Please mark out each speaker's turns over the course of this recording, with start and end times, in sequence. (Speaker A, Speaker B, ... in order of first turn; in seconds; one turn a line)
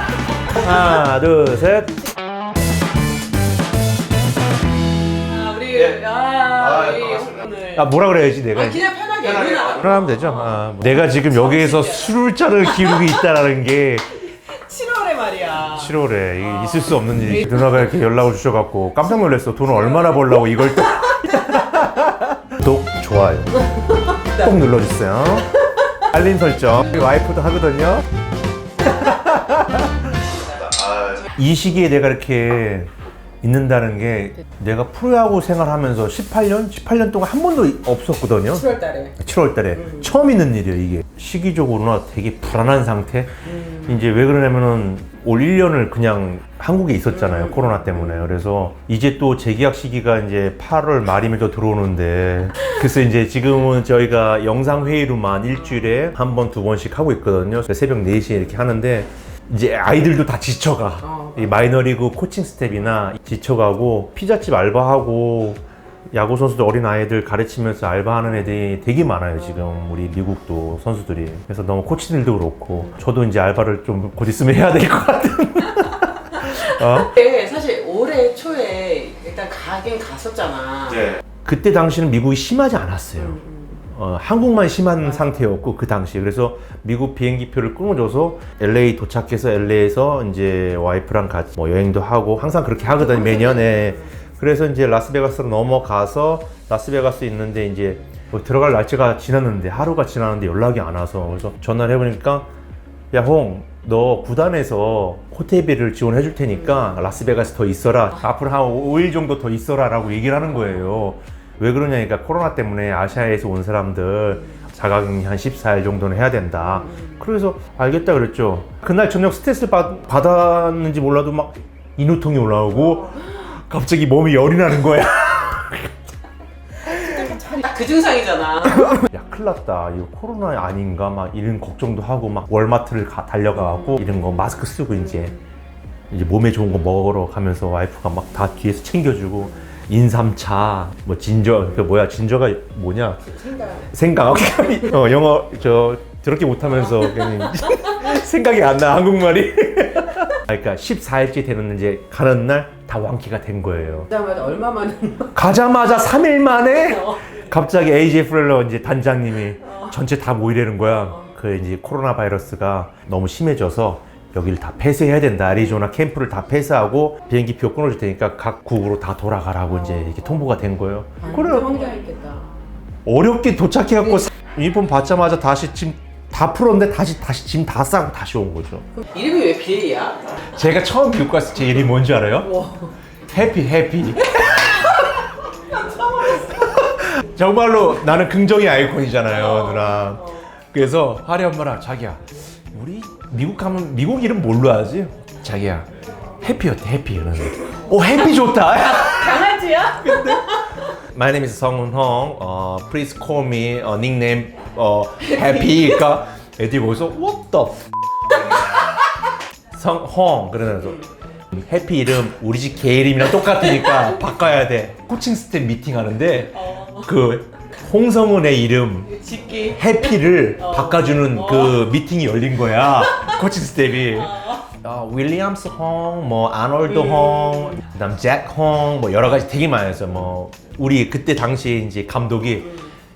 Speaker A: 0.5-2.0
Speaker B: 5.2-7.9
Speaker A: 7.8-8.8
Speaker B: 8.5-13.1
Speaker A: 9.6-14.1
Speaker B: 14.5-17.7
Speaker A: 15.6-23.6
Speaker A: 24.3-25.6
Speaker A: 26.1-28.1
Speaker A: 28.8-30.1
Speaker A: 30.8-32.9
Speaker A: 33.4-38.7
Speaker B: 38.5-39.2
Speaker A: 39.2-65.6
Speaker B: 43.5-43.9
Speaker B: 47.2-48.0
Speaker B: 61.0-61.6
Speaker A: 66.1-77.1
Speaker B: 76.9-81.2
Speaker A: 81.4-83.4
Speaker B: 83.2-83.8
Speaker A: 83.9-102.5
Speaker B: 92.8-94.2
Speaker A: 103.1-126.0
Speaker B: 126.8-129.0
Speaker A: 128.8-135.4
Speaker A: 136.1-143.2
Speaker B: 143.3-143.9
Speaker A: 143.9-154.1
Speaker B: 154.0-155.3
Speaker A: 155.3-171.9
Speaker B: 156.8-157.2
Speaker B: 171.2-172.5
Speaker A: 173.1-178.8
Speaker B: 179.0-180.2
Speaker A: 180.6-182.5
Speaker B: 182.4-182.9
Speaker A: 183.3-185.0
Speaker B: 185.7-186.8
Speaker A: 186.4-192.2
Speaker B: 189.3-190.5
Speaker A: 192.7-195.9
Speaker A: 196.4-200.5
Speaker B: 198.9-200.8
Speaker A: 201.1-207.8
Speaker A: 209.8-219.1
Speaker B: 216.5-217.1
Speaker B: 219.1-221.8
Speaker A: 219.7-232.8
Speaker B: 224.1-224.7
Speaker B: 226.9-227.8